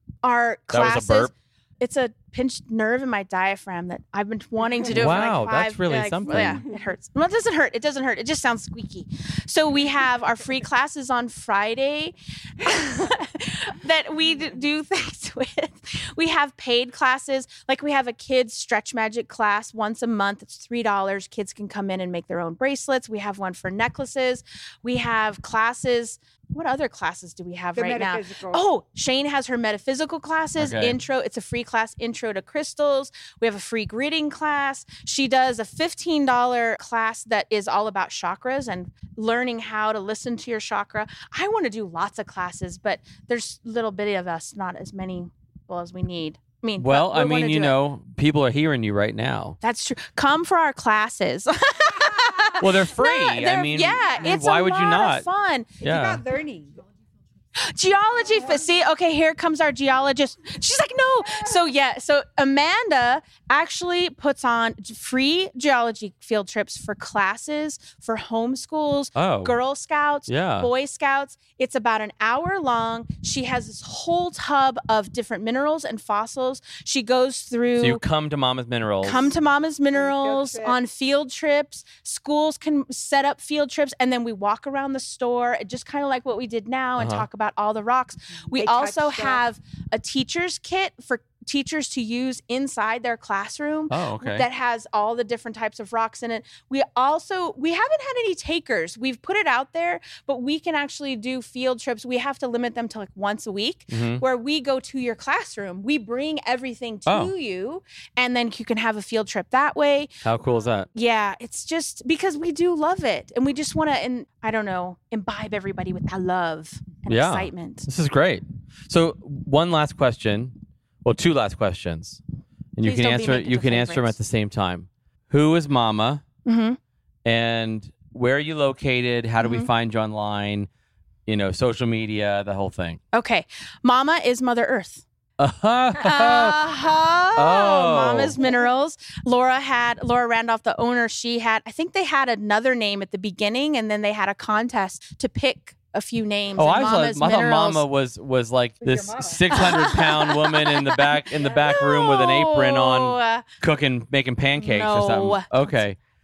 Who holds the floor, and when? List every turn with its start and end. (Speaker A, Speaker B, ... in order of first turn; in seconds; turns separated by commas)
Speaker A: 0.2-47.8, Speaker B: 0.7-1.3, Speaker B: 4.9-6.6, Speaker C: 27.7-28.6, Speaker B: 30.6-31.0, Speaker B: 46.8-49.6, Speaker A: 49.6-55.7, Speaker C: 51.9-52.6, Speaker B: 52.6-55.2, Speaker C: 53.8-54.4, Speaker C: 55.8-56.8, Speaker B: 55.8-56.2, Speaker A: 57.5-78.0, Speaker C: 58.3-58.6, Speaker C: 61.2-61.6, Speaker B: 69.2-69.6, Speaker B: 70.3-70.7, Speaker B: 77.8-79.3, Speaker A: 79.0-110.2, Speaker C: 79.9-80.8, Speaker B: 87.0-87.2, Speaker C: 88.5-89.4, Speaker B: 93.9-94.4, Speaker B: 103.9-104.2, Speaker B: 107.1-107.3, Speaker B: 110.2-110.9, Speaker A: 110.9-117.9, Speaker B: 117.1-122.2, Speaker B: 122.8-126.2, Speaker A: 122.8-124.2, Speaker A: 126.4-126.8, Speaker B: 127.2-130.7, Speaker A: 129.4-129.7, Speaker B: 131.2-133.0, Speaker A: 133.1-135.0, Speaker B: 135.4-136.6, Speaker A: 136.0-147.8, Speaker B: 137.3-138.4, Speaker B: 146.6-156.0, Speaker C: 148.8-149.6, Speaker A: 149.5-153.4, Speaker A: 154.6-155.8